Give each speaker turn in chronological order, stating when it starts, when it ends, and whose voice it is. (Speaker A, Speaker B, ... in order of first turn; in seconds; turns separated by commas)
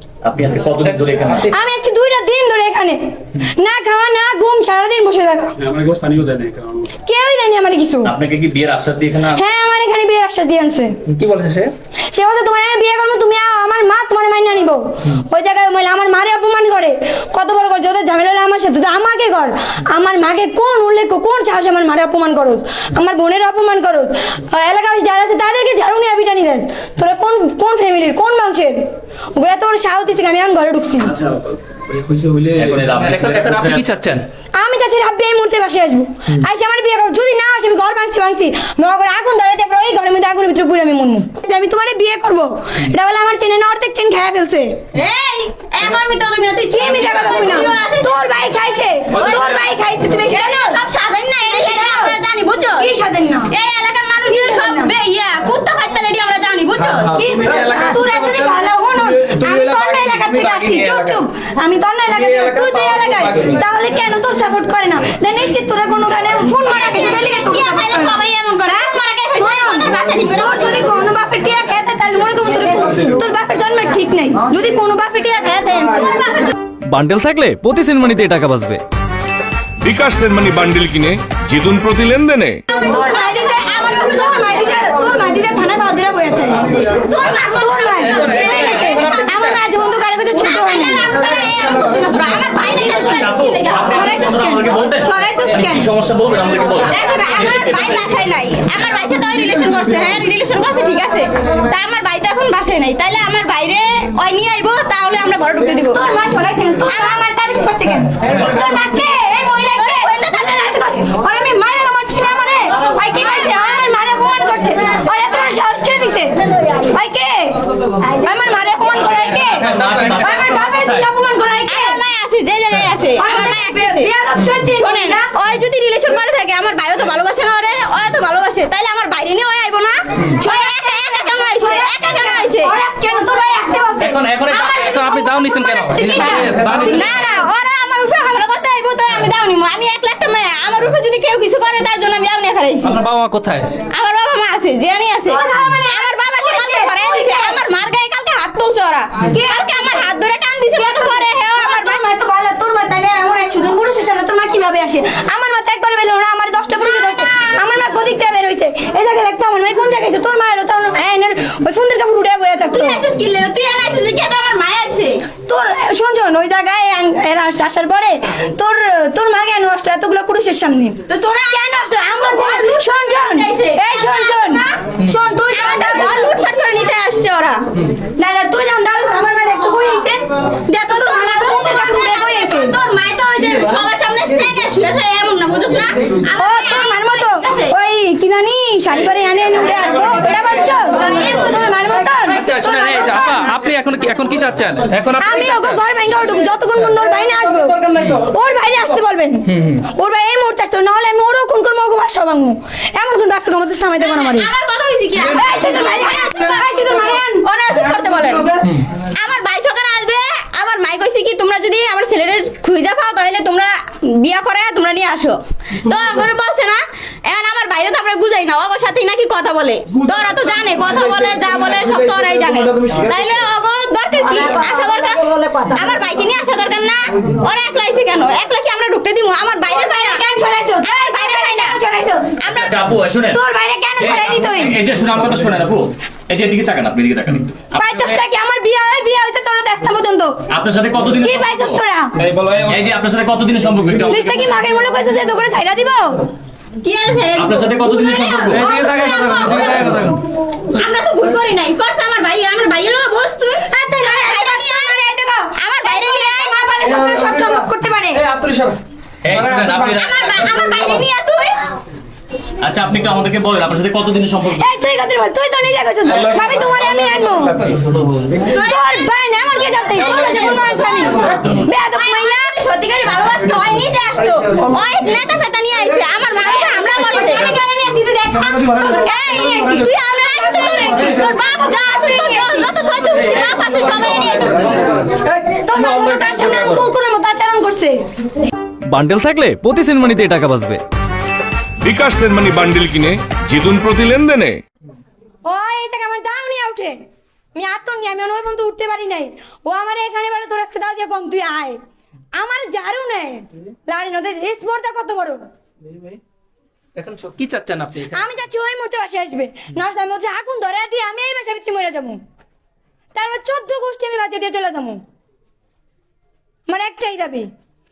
Speaker A: 0.2-1.5, Speaker B: 0.9-1.5, Speaker C: 1.5-5.5, Speaker A: 5.6-6.8, Speaker C: 7.0-8.1, Speaker A: 8.0-9.4, Speaker C: 9.3-11.0, Speaker B: 11.1-11.7, Speaker C: 12.1-28.8, Speaker C: 29.3-31.1, Speaker B: 31.3-34.3, Speaker A: 32.5-33.9, Speaker C: 34.6-44.8, Speaker D: 44.9-48.5, Speaker C: 46.7-50.8, Speaker D: 49.1-49.5, Speaker B: 49.1-49.7, Speaker D: 50.2-52.9, Speaker C: 51.6-52.1, Speaker C: 52.8-53.5, Speaker D: 53.5-57.1, Speaker C: 54.3-54.9, Speaker B: 56.8-61.2, Speaker C: 57.1-76.1, Speaker B: 62.1-63.6, Speaker D: 66.6-70.8, Speaker D: 75.9-76.5, Speaker E: 76.9-78.8, Speaker F: 79.8-82.6, Speaker D: 82.7-84.9, Speaker C: 82.8-86.7, Speaker D: 86.6-89.5, Speaker C: 87.3-91.1, Speaker B: 87.9-89.6, Speaker D: 90.3-94.3, Speaker A: 92.8-98.1, Speaker C: 93.9-95.8, Speaker D: 96.9-106.0, Speaker C: 105.9-117.6, Speaker D: 106.9-107.2, Speaker D: 109.7-111.0, Speaker D: 113.1-113.7, Speaker C: 118.1-122.0, Speaker A: 119.0-121.1, Speaker B: 119.5-120.5, Speaker D: 121.7-124.1, Speaker C: 123.2-125.3, Speaker D: 124.8-132.7, Speaker C: 130.2-137.3, Speaker B: 134.0-137.1, Speaker D: 136.2-143.0, Speaker B: 142.8-143.7, Speaker D: 143.9-152.0, Speaker C: 145.2-147.6, Speaker C: 149.2-149.7, Speaker C: 150.8-163.0, Speaker D: 156.8-157.5, Speaker D: 162.7-165.2, Speaker C: 165.4-176.3, Speaker D: 171.1-174.8, Speaker D: 175.5-177.6, Speaker C: 178.2-182.8, Speaker D: 180.9-187.7, Speaker C: 186.4-193.5, Speaker B: 192.3-195.8, Speaker C: 195.2-204.5, Speaker B: 197.9-198.2, Speaker B: 199.5-199.8, Speaker D: 204.0-230.2, Speaker C: 205.2-207.4, Speaker B: 208.6-208.8, Speaker B: 220.8-223.4, Speaker C: 229.7-232.4, Speaker D: 230.8-231.8, Speaker D: 232.4-232.7, Speaker A: 232.5-233.4, Speaker C: 233.3-234.8, Speaker A: 234.0-238.2, Speaker C: 237.7-240.4, Speaker A: 240.5-241.8, Speaker C: 241.2-242.1, Speaker B: 242.2-242.9, Speaker A: 242.6-244.3, Speaker C: 244.1-246.3, Speaker D: 246.8-255.0, Speaker A: 247.3-248.8, Speaker B: 248.5-250.2, Speaker C: 253.7-258.2, Speaker D: 255.6-256.7, Speaker B: 256.9-257.6, Speaker B: 258.2-258.8, Speaker A: 259.2-260.5, Speaker B: 259.3-259.9, Speaker D: 259.9-261.6, Speaker A: 262.6-264.6, Speaker C: 264.5-267.6, Speaker B: 266.1-266.9, Speaker B: 267.7-268.3, Speaker D: 268.4-269.1, Speaker C: 268.5-272.5, Speaker D: 269.9-284.9, Speaker A: 271.3-271.6, Speaker C: 277.0-277.5, Speaker C: 278.2-279.0, Speaker B: 285.1-286.8, Speaker C: 285.5-288.0, Speaker E: 288.9-290.8, Speaker F: 291.8-294.6, Speaker C: 295.4-297.0, Speaker C: 297.5-301.8, Speaker C: 302.3-305.4, Speaker B: 305.8-306.2, Speaker B: 306.9-308.2, Speaker C: 308.1-312.2, Speaker C: 313.1-315.0, Speaker C: 316.7-317.5